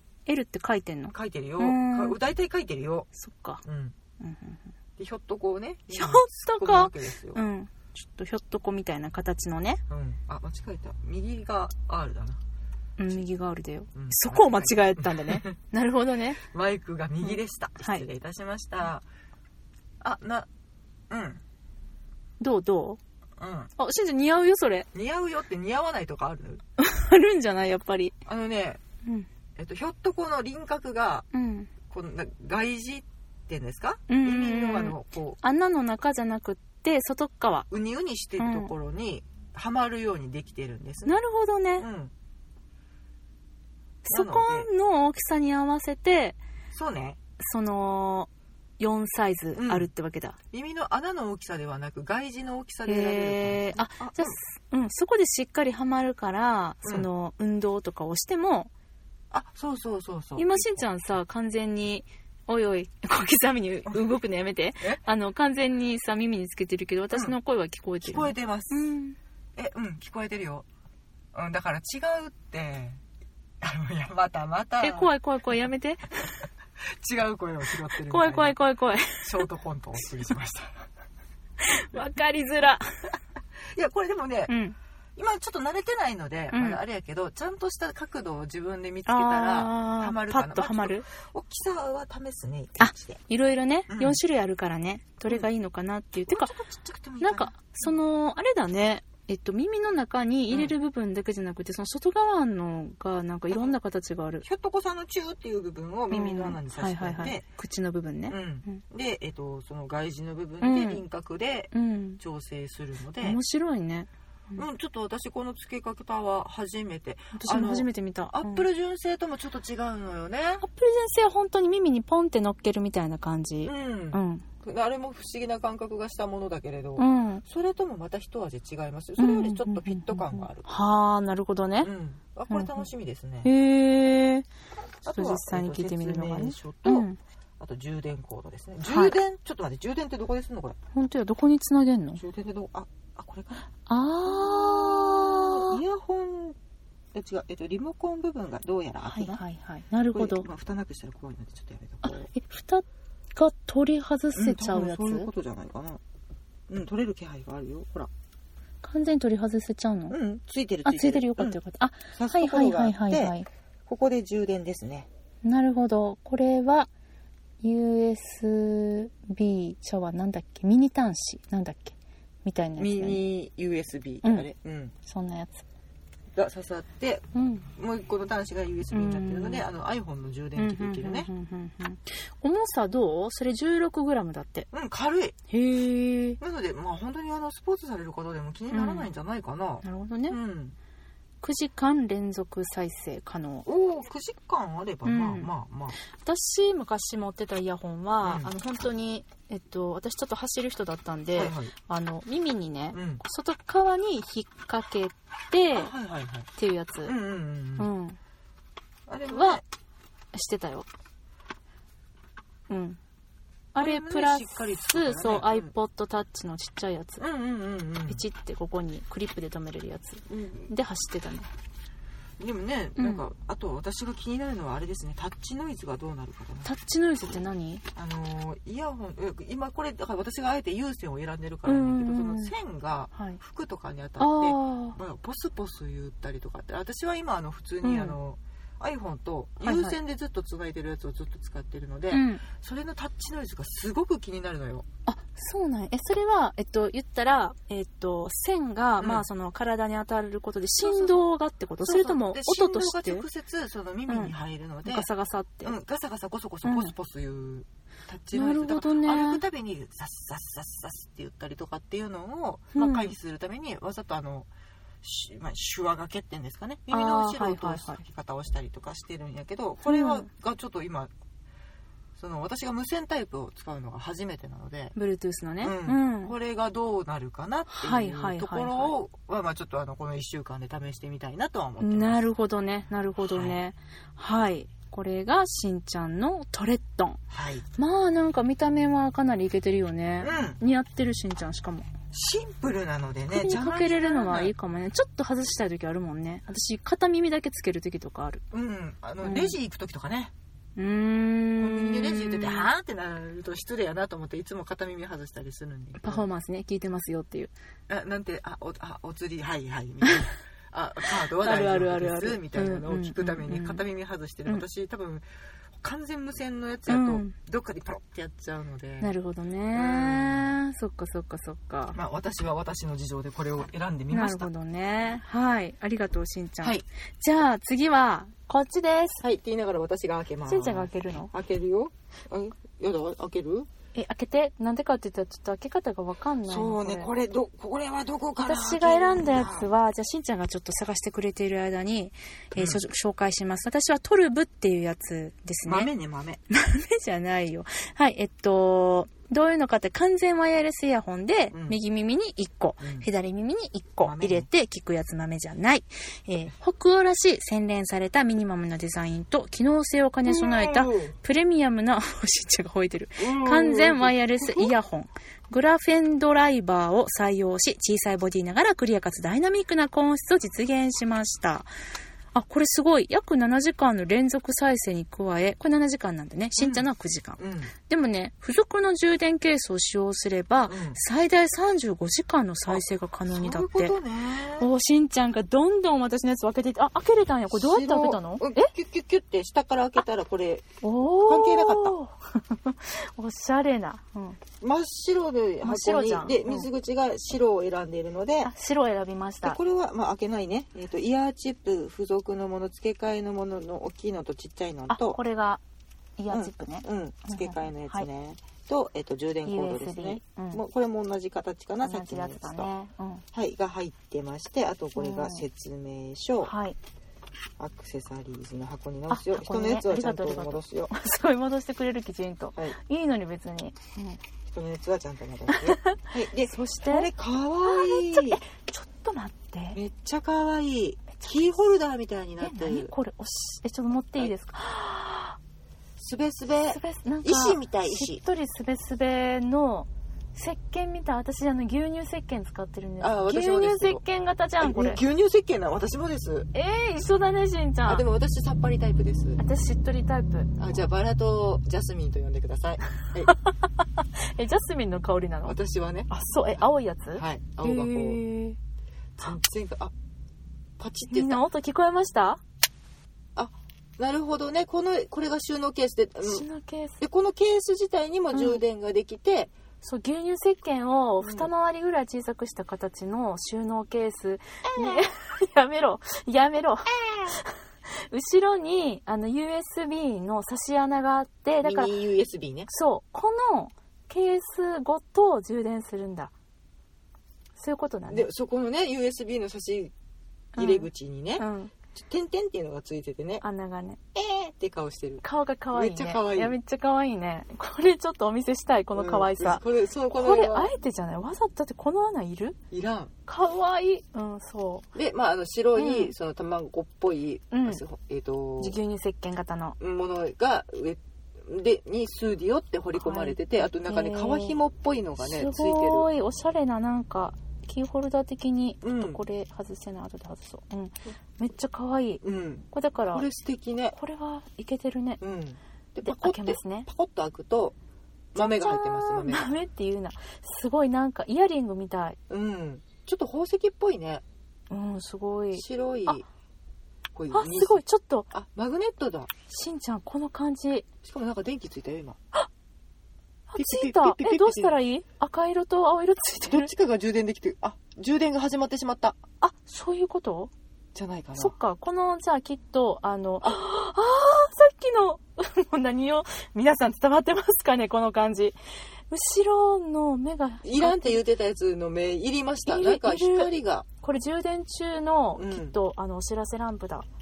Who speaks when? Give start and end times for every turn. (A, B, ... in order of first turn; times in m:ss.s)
0:00.3-0:02.2 A
0:01.1-0:03.1 B
0:03.2-0:03.6 A
0:03.6-0:03.9 B
0:04.2-0:04.6 A
0:05.0-0:07.4 B
0:05.9-0:09.8 A
0:09.9-0:12.4 B
0:13.0-0:16.4 A
0:13.9-0:15.5 B
0:16.4-0:19.0 B
0:17.2-0:18.0 A
0:20.0-0:20.5 B
0:21.1-0:21.4 B
0:22.4-0:23.0 A
0:23.4-0:23.7 B
0:23.8-0:24.9 A
0:24.9-0:26.6 B
0:26.8-0:28.1 A
0:28.2-0:28.8 B
0:29.6-0:31.2 B
0:31.3-0:31.7 A
0:31.9-0:35.4 B
0:34.1-0:37.7 A
0:37.7-0:41.1 B
0:38.4-0:38.7 A
0:41.0-0:41.9 A
0:41.8-0:42.1 B
0:44.0-0:46.4 A
0:44.1-0:44.7 B
0:46.7-0:47.2 B
0:47.4-0:50.4 A
0:49.5-0:49.9 B
0:50.5-0:54.4 B
0:52.8-0:58.7 A
0:59.3-1:00.8 B
1:00.4-1:09.2 A
1:08.0-1:08.9 B
1:09.6-1:10.6 B
1:11.3-1:13.0 B
1:13.6-1:15.1 B
1:14.8-1:16.4 A
1:16.8-1:18.6 B
1:17.9-1:19.4 A
1:19.2-1:20.8 B
1:21.6-1:23.1 A
1:23.7-1:24.5 B
1:24.5-1:24.8 A
1:25.2-1:33.2 B
1:26.5-1:26.8 A
1:29.0-1:31.1 A
1:32.8-1:36.5 A
1:33.9-1:34.2 B
1:36.3-1:37.9 B
1:37.2-1:44.4 A
1:40.5-1:40.7 B
1:44.4-1:47.4 B
1:46.1-1:48.8 A
1:48.3-1:53.4 B
1:50.6-1:51.0 A
1:51.7-1:52.2 A
1:53.2-1:54.6 A
1:54.6-2:00.6 B
1:57.3-1:58.6 A
2:00.6-2:04.4 A
2:03.6-2:10.6 B
2:07.0-2:07.4 A
2:09.2-2:11.9 A
2:11.8-2:13.5 B
2:12.5-2:12.9 A
2:13.4-2:14.5 A
2:15.0-2:17.1 B
2:15.1-2:17.2 A
2:17.6-2:20.8 B
2:18.8-2:19.2 A
2:20.9-2:22.2 A
2:22.2-2:23.6 B
2:23.8-2:25.8 A
2:24.2-2:26.6 B
2:27.1-2:29.4 B
2:29.0-2:30.4 A
2:30.1-2:32.3 B
2:32.0-2:35.3 A
2:34.3-2:36.0 B
2:36.7-2:38.1 B
2:38.8-2:40.2 A
2:40.1-2:41.6 B
2:40.8-2:43.5 A
2:42.1-2:43.3 B
2:43.9-2:45.1 B
2:45.4-2:46.9 A
2:47.6-2:53.2 A
2:52.8-2:54.9 B
2:54.2-2:54.5 A
2:55.0-2:55.6 A
2:56.3-3:01.3 B
2:57.3-2:57.6 A
2:58.9-2:59.6 A
3:00.6-3:04.7 A
3:04.7-3:05.4 B
3:05.5-3:06.4 A
3:06.4-3:10.7 B
3:08.7-3:09.1 A
3:09.8-3:10.4 A
3:11.4-3:13.6 A
3:13.6-3:16.0 B
3:15.0-3:15.5 A
3:16.2-3:25.9 A
3:18.2-3:18.5 B
3:21.4-3:21.7 B
3:22.9-3:23.2 B
3:25.7-3:26.5 B
3:26.5-3:27.1 A
3:27.0-3:27.9 B
3:27.8-3:28.2 A
3:29.1-3:29.6 B
3:29.3-3:29.6 A
3:30.3-3:30.9 A
3:32.7-3:33.0 A
3:33.7-3:37.2 A
3:33.8-3:35.7 B
3:37.2-3:38.2 B
3:38.1-3:41.5 A
3:40.3-3:40.7 B
3:42.4-3:46.7 B
3:43.0-3:43.3 A
3:46.6-3:47.8 A
3:48.0-4:04.8 B
3:51.6-3:52.5 A
3:53.1-3:53.4 A
3:54.2-3:55.0 A
3:57.8-3:58.2 A
3:59.6-4:00.0 A
4:02.1-4:02.4 A
4:05.0-4:13.2 A
4:09.0-4:09.2 B
4:10.8-4:11.2 B
4:11.8-4:15.1 B
4:14.1-4:14.3 A
4:14.8-4:15.7 A
4:15.6-4:24.5 B
4:16.6-4:16.9 A
4:18.3-4:19.4 A
4:22.7-4:23.1 A
4:25.0-4:31.1 B
4:26.9-4:28.0 A
4:29.8-4:30.3 A
4:32.2-4:34.9 B
4:34.9-4:36.3 A
4:35.6-4:42.2 B
4:37.7-4:38.9 A
4:41.8-4:47.2 A
4:43.2-4:43.6 B
4:47.3-4:47.6 B
4:47.8-4:51.9 A
4:50.2-4:50.6 B
4:52.1-4:54.5 B
4:53.3-4:58.4 A
4:58.5-5:00.3 B
4:59.2-4:59.6 A
5:00.8-5:02.7 A
5:01.6-5:06.2 B
5:06.0-5:07.5 A
5:07.9-5:15.2 B
5:11.3-5:13.8 A
5:15.8-5:19.1 B
5:16.9-5:17.3 A
5:19.0-5:22.0 A
5:19.7-5:20.6 B
5:21.9-5:24.5 B
5:24.1-5:29.2 A
5:29.2-5:33.7 B
5:30.5-5:31.3 A
5:33.9-5:37.1 A
5:36.5-5:39.7 B
5:38.4-5:45.9 A
5:42.6-5:42.8 B
5:45.6-5:46.4 B
5:46.5-6:11.7 A
5:51.5-5:51.8 B
5:52.8-5:53.1 B
5:54.0-5:54.5 B
6:00.2-6:01.1 B
6:03.2-6:04.7 B
6:12.3-6:24.0 A
6:16.6-6:16.8 B
6:17.4-6:17.7 B
6:20.7-6:21.0 B
6:22.7-6:24.7 B
6:24.6-6:28.7 A
6:27.5-6:30.6 B
6:30.8-6:34.4 A
6:31.2-6:31.9 B
6:34.6-6:38.5 B
6:35.6-6:36.7 A
6:38.4-6:39.6 A
6:39.4-6:45.2 B
6:44.9-6:45.6 A
6:46.2-6:48.1 A
6:46.3-6:52.7 B
6:49.4-6:50.6 A
6:51.8-6:53.2 A
6:53.3-6:56.5 B
6:54.9-6:55.4 A
6:56.4-6:56.8 A
6:57.6-7:00.9 B
6:59.1-7:04.2 A
7:04.4-7:08.4 B
7:05.5-7:07.1 A
7:07.6-7:09.8 A
7:09.7-7:12.9 B
7:12.4-7:15.4 A
7:16.0-7:18.2 B
7:16.7-7:25.0 A
7:23.0-7:24.0 B
7:24.6-7:26.5 B
7:26.5-7:28.0 A
7:27.9-7:29.4 B
7:29.4-7:30.5 A
7:30.6-7:33.3 B
7:33.2-7:35.6 A
7:35.4-7:36.1 B
7:36.1-7:38.6 A
7:37.2-7:38.2 B
7:39.2-7:39.9 B
7:40.8-7:41.4 B
7:41.1-7:42.4 A
7:43.4-7:46.4 B
7:46.2-7:47.0 A
7:47.0-7:49.5 B
7:48.3-7:48.6 A
7:49.8-7:57.6 A
7:51.2-7:51.5 B
7:54.7-7:55.0 B
7:58.1-8:01.9 A
8:01.6-8:02.7 B
8:02.7-8:06.3 A
8:07.6-8:08.3 A
8:08.1-8:09.9 B
8:10.6-8:11.7 A
8:10.6-8:13.4 B
8:13.4-8:14.0 A
8:14.1-8:16.5 B
8:15.2-8:22.6 A
8:18.9-8:20.7 B
8:22.7-8:23.1 B
8:23.3-8:24.8 A
8:24.9-8:28.8 B
8:25.7-8:26.1 A
8:27.5-8:27.8 A
8:28.6-8:29.8 A
8:29.8-8:36.1 B
8:33.0-8:34.6 A
8:35.2-8:43.3 A
8:38.8-8:39.2 B
8:42.2-8:44.0 B
8:43.9-8:45.2 A
8:45.2-8:47.7 B
8:46.0-8:46.9 A
8:48.3-8:49.5 B
8:48.3-8:52.2 A
8:52.3-8:54.2 B
8:54.7-8:56.2 A
8:55.5-8:56.2 B
8:57.1-8:59.3 B
8:57.3-8:58.3 A
8:59.5-9:00.8 A
9:01.0-9:02.2 B
9:03.5-9:06.7 A
9:03.6-9:04.8 B
9:06.4-9:09.2 B
9:09.4-9:10.5 A
9:10.9-9:11.5 B
9:11.4-9:18.6 A
9:19.1-9:21.2 A
9:20.6-9:23.9 B
9:22.6-9:27.1 A
9:25.4-9:25.8 B